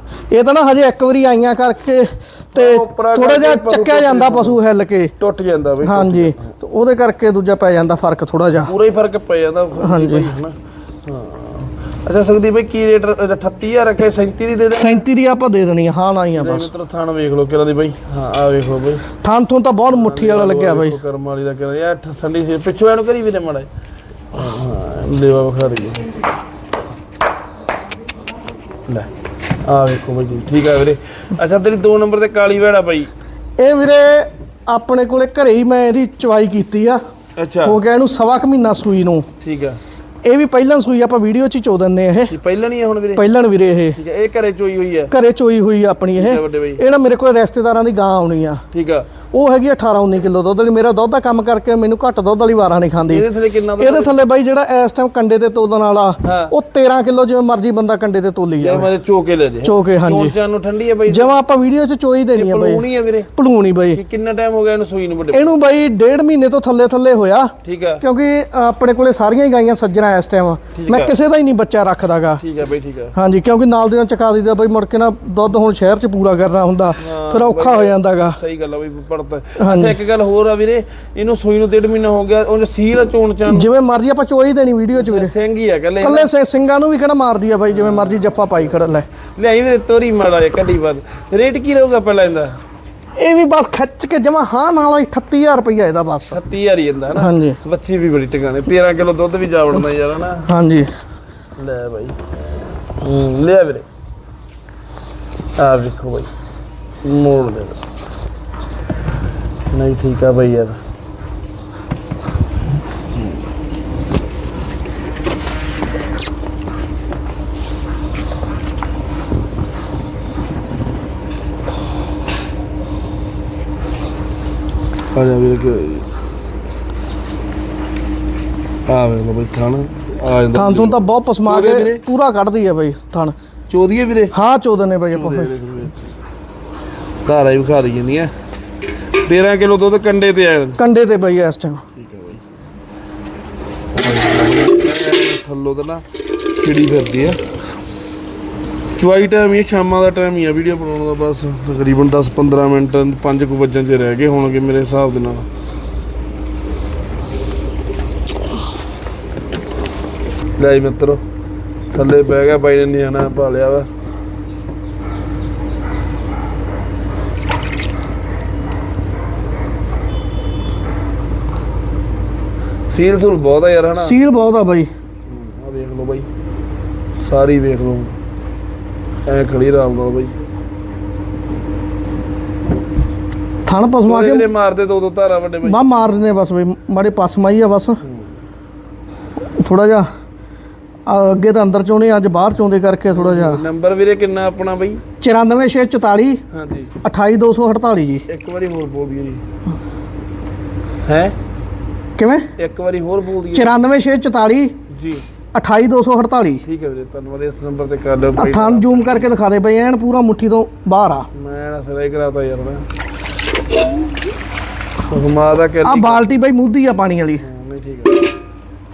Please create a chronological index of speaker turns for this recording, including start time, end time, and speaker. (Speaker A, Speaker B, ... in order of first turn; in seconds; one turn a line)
Speaker A: 0.3-5.1
Speaker B: 2.5-4.6
Speaker B: 5.2-6.5
Speaker A: 5.8-8.7
Speaker B: 8.6-10.5
Speaker A: 9.8-10.3
Speaker B: 11.1-15.1
Speaker A: 14.7-16.7
Speaker B: 16.3-19.1
Speaker A: 19.2-21.0
Speaker B: 19.9-23.7
Speaker B: 24.3-26.1
Speaker B: 29.6-33.1
Speaker A: 33.6-37.0
Speaker B: 37.4-37.8
Speaker A: 37.6-39.3
Speaker B: 39.4-39.8
Speaker A: 40.2-42.3
Speaker B: 42.3-43.3
Speaker A: 43.2-44.0
Speaker B: 44.0-45.1
Speaker A: 45.1-48.6
Speaker B: 46.2-46.8
Speaker B: 48.7-49.1
Speaker A: 49.3-53.3
Speaker B: 53.1-54.2
Speaker A: 53.8-58.9
Speaker B: 56.2-56.5
Speaker B: 58.6-61.4
Speaker A: 59.6-60.4
Speaker A: 61.1-64.0
Speaker B: 62.4-63.3
Speaker B: 63.9-65.5
Speaker A: 65.3-72.4
Speaker B: 67.6-68.0
Speaker B: 70.8-71.2
Speaker B: 72.4-73.2
Speaker A: 73.2-78.4
Speaker B: 77.0-83.7
Speaker A: 79.6-80.0
Speaker A: 83.5-85.3
Speaker B: 84.9-86.3
Speaker A: 86.0-89.1
Speaker B: 87.7-88.7
Speaker B: 89.4-92.6
Speaker A: 93.2-96.4
Speaker B: 96.3-100.5
Speaker A: 97.2-97.6
Speaker A: 100.5-100.9
Speaker B: 101.6-103.8
Speaker B: 105.6-106.3
Speaker B: 107.0-107.8
Speaker B: 109.7-110.8
Speaker B: 125.1-126.1
Speaker B: 128.9-132.0
Speaker A: 130.5-133.3
Speaker B: 133.7-134.3
Speaker A: 134.3-135.6
Speaker B: 135.1-136.1
Speaker B: 137.2-138.3
Speaker B: 139.3-140.8
Speaker A: 140.8-141.8
Speaker B: 142.0-142.4
Speaker B: 143.9-146.1
Speaker B: 146.6-147.4
Speaker B: 149.0-155.5
Speaker B: 160.6-161.2
Speaker B: 161.9-163.9
Speaker B: 172.9-174.2
Speaker A: 174.0-174.9
Speaker B: 175.3-176.3
Speaker B: 177.2-178.2
Speaker B: 179.3-180.3
Speaker A: 183.7-184.5
Speaker B: 184.1-185.8
Speaker A: 185.6-188.0
Speaker B: 188.0-188.3
Speaker A: 189.6-190.1
Speaker A: 191.1-193.7
Speaker B: 193.1-195.0
Speaker A: 195.2-196.4
Speaker B: 196.5-196.9
Speaker A: 197.0-198.2
Speaker B: 198.3-199.4
Speaker B: 201.1-201.3
Speaker A: 202.2-202.5
Speaker B: 202.6-203.8
Speaker A: 203.5-204.8
Speaker B: 204.9-205.2
Speaker A: 205.5-206.6
Speaker B: 206.7-209.3
Speaker A: 208.3-211.3
Speaker B: 211.3-212.9
Speaker B: 215.1-216.3
Speaker A: 215.8-217.4
Speaker B: 217.4-218.2